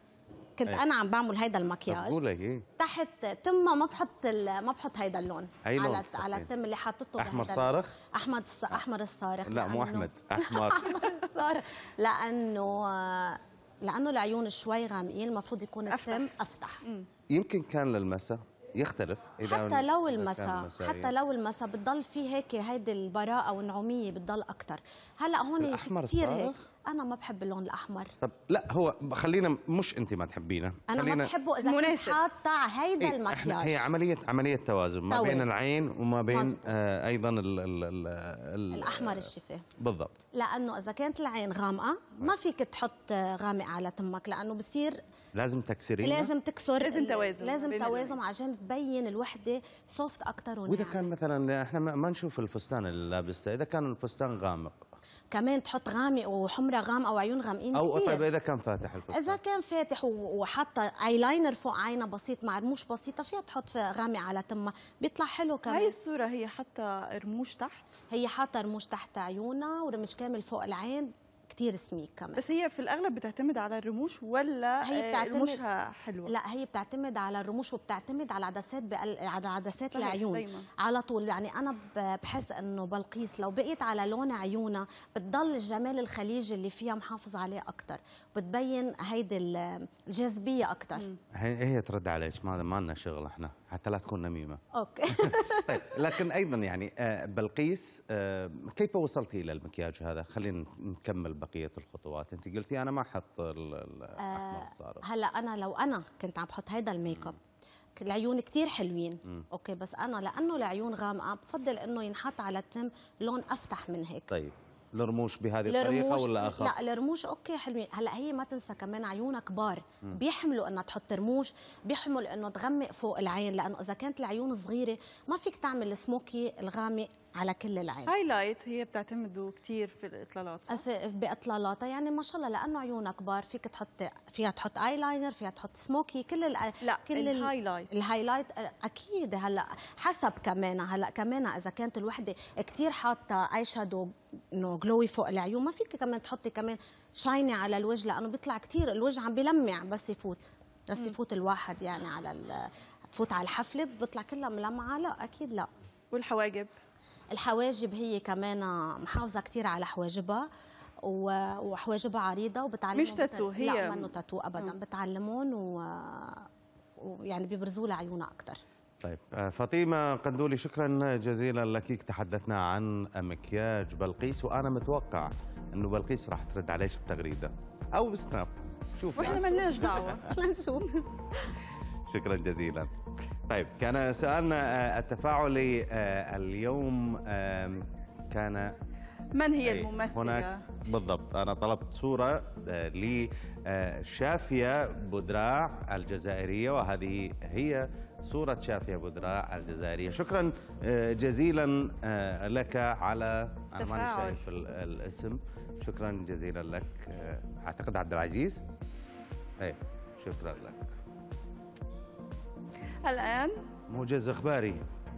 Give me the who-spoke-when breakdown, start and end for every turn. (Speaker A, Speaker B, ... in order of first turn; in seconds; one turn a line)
Speaker A: 0.6-2.2
Speaker B: 1.9-2.6
Speaker A: 2.8-16.8
Speaker B: 5.6-6.5
Speaker B: 7.2-7.9
Speaker B: 9.4-10.9
Speaker C: 15.9-16.2
Speaker B: 17.3-21.1
Speaker A: 19.4-28.1
Speaker B: 25.6-26.6
Speaker B: 28.2-31.3
Speaker A: 30.9-33.9
Speaker C: 31.6-32.2
Speaker B: 33.0-40.2
Speaker A: 35.1-35.5
Speaker A: 36.3-36.8
Speaker A: 38.7-39.6
Speaker A: 40.3-45.0
Speaker B: 45.3-46.3
Speaker A: 46.0-51.0
Speaker C: 46.8-48.2
Speaker B: 50.7-54.9
Speaker A: 55.3-58.3
Speaker B: 57.7-59.4
Speaker A: 59.1-65.9
Speaker C: 65.7-67.8
Speaker A: 68.1-72.4
Speaker C: 72.4-76.3
Speaker A: 74.8-75.6
Speaker A: 76.2-91.1
Speaker C: 79.9-80.7
Speaker B: 91.3-94.6
Speaker A: 94.7-95.8
Speaker B: 95.6-105.0
Speaker A: 104.2-107.4
Speaker A: 108.0-114.3
Speaker B: 114.3-116.7
Speaker A: 115.7-128.1
Speaker C: 128.1-130.8
Speaker A: 130.7-155.7
Speaker C: 136.8-137.9
Speaker C: 156.1-156.7
Speaker A: 157.3-160.5
Speaker A: 161.0-166.5
Speaker C: 162.9-164.7
Speaker A: 167.0-168.6
Speaker B: 169.0-180.1
Speaker C: 179.2-181.0
Speaker A: 179.2-180.9
Speaker B: 182.1-182.9
Speaker B: 183.5-188.7
Speaker C: 189.3-190.6
Speaker B: 189.6-208.6
Speaker C: 203.8-204.4
Speaker B: 209.6-210.9
Speaker C: 213.0-213.6
Speaker B: 213.9-214.8